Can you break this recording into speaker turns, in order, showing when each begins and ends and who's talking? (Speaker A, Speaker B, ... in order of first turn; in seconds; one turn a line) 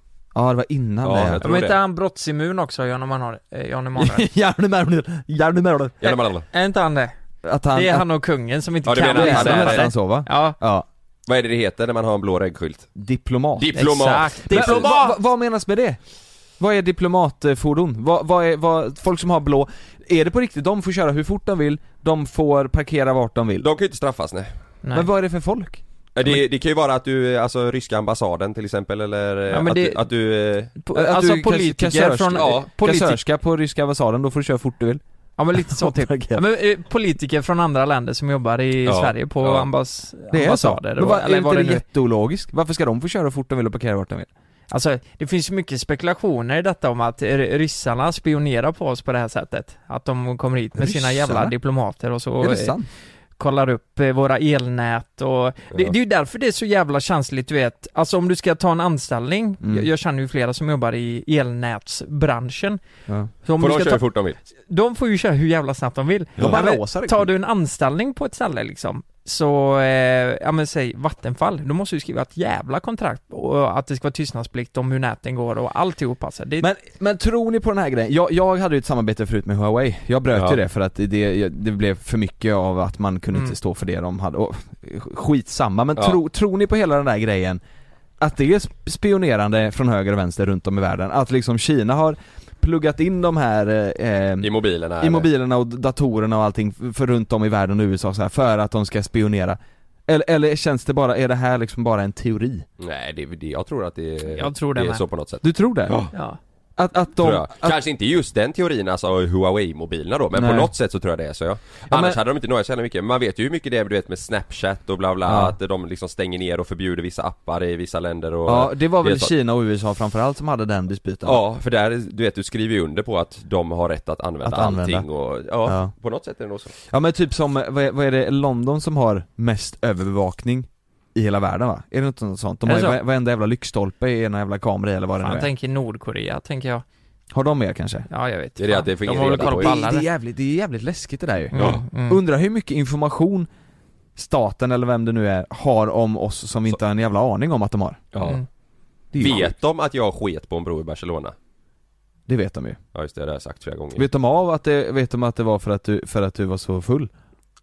Speaker A: 0.3-1.5
Speaker B: 1.0-1.8
Speaker C: 1.4-4.3
Speaker A: 4.0-6.0
Speaker B: 6.0-6.4
Speaker C: 6.0-7.1
Speaker A: 7.4-8.1
Speaker C: 7.7-10.6
Speaker B: 8.8-9.8
Speaker A: 9.1-10.8
Speaker B: 11.3-12.9
Speaker A: 12.9-16.0
Speaker B: 13.6-14.9
Speaker C: 13.7-15.2
Speaker A: 16.6-23.7
Speaker B: 23.6-24.5
Speaker A: 24.9-26.4
Speaker B: 26.1-30.7
Speaker C: 29.5-30.0
Speaker C: 30.8-33.2
Speaker A: 30.9-35.0
Speaker B: 32.3-32.7
Speaker C: 35.4-41.8
Speaker A: 35.6-36.4
Speaker B: 38.9-39.7
Speaker A: 40.3-44.3
Speaker C: 44.7-52.8
Speaker A: 50.7-51.5
Speaker A: 52.4-52.9
Speaker C: 53.4-62.8
Speaker A: 59.6-59.9
Speaker C: 63.4-64.0
Speaker B: 63.6-64.4
Speaker C: 64.7-76.7
Speaker A: 66.4-67.3
Speaker A: 76.6-87.6
Speaker B: 80.3-80.6
Speaker A: 88.2-102.7
Speaker B: 94.4-95.3
Speaker B: 102.8-106.1
Speaker C: 104.3-105.0
Speaker A: 105.4-106.0
Speaker C: 106.1-106.4
Speaker A: 106.8-107.8
Speaker B: 107.2-119.3
Speaker A: 110.3-110.7
Speaker A: 111.9-112.2
Speaker A: 115.2-115.5
Speaker A: 118.5-121.4
Speaker B: 121.2-126.7
Speaker A: 124.4-125.0
Speaker A: 125.6-125.9
Speaker A: 126.9-135.5
Speaker C: 132.7-133.0
Speaker C: 135.2-136.8
Speaker A: 137.3-138.1
Speaker C: 138.1-140.1
Speaker B: 138.6-139.8
Speaker A: 139.1-143.5
Speaker C: 141.5-142.2
Speaker A: 144.2-148.2
Speaker B: 148.1-148.4
Speaker A: 149.1-149.5
Speaker B: 149.2-151.3
Speaker A: 152.3-152.8
Speaker B: 152.9-154.0
Speaker A: 153.9-157.1